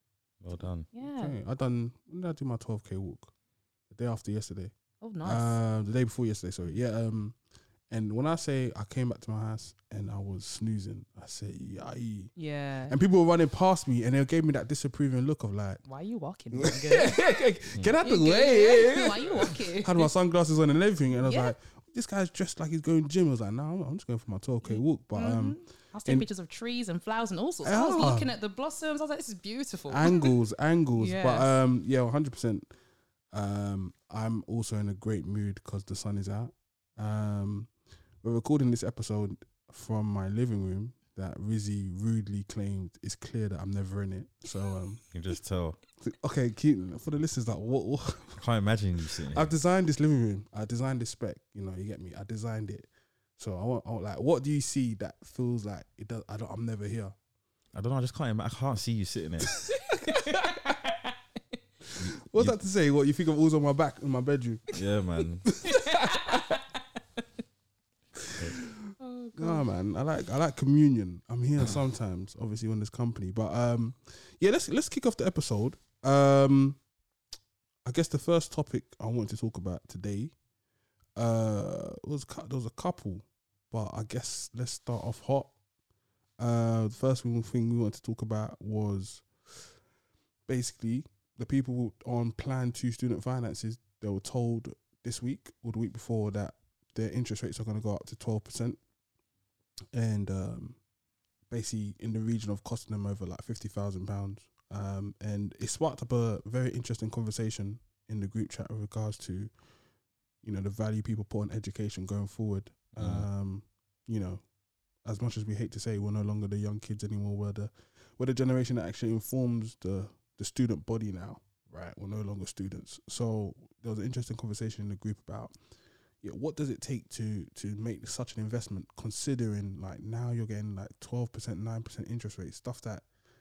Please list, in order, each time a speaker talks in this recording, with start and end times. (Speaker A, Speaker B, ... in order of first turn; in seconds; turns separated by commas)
Speaker A: 0.4-0.9, Speaker B: 0.9-1.4, Speaker C: 1.0-3.3, Speaker C: 3.9-4.7, Speaker B: 5.0-5.5, Speaker C: 5.2-7.3, Speaker C: 7.9-12.3, Speaker B: 12.3-13.0, Speaker C: 12.9-15.8, Speaker B: 15.8-17.4, Speaker C: 16.5-26.3, Speaker B: 18.0-20.1, Speaker B: 21.2-21.5, Speaker B: 24.6-30.3, Speaker C: 27.6-28.3, Speaker C: 29.9-32.7, Speaker B: 31.0-31.5, Speaker C: 33.3-37.7, Speaker C: 38.2-45.0, Speaker A: 45.1-45.8, Speaker C: 46.0-48.4, Speaker A: 48.4-49.5, Speaker C: 49.3-57.1, Speaker A: 57.7-59.5, Speaker B: 59.9-61.1, Speaker C: 60.3-60.7, Speaker A: 62.0-62.6, Speaker C: 62.2-64.6, Speaker A: 64.7-65.5, Speaker C: 65.6-66.4, Speaker B: 65.6-67.2, Speaker C: 68.3-68.7, Speaker B: 69.0-69.7, Speaker C: 69.3-76.8, Speaker C: 77.8-80.3, Speaker C: 81.2-85.5, Speaker C: 86.4-89.6, Speaker C: 90.5-98.8, Speaker C: 99.9-100.8, Speaker C: 101.5-109.5, Speaker C: 110.4-114.4, Speaker A: 113.0-113.3, Speaker C: 115.0-125.5, Speaker C: 126.2-133.0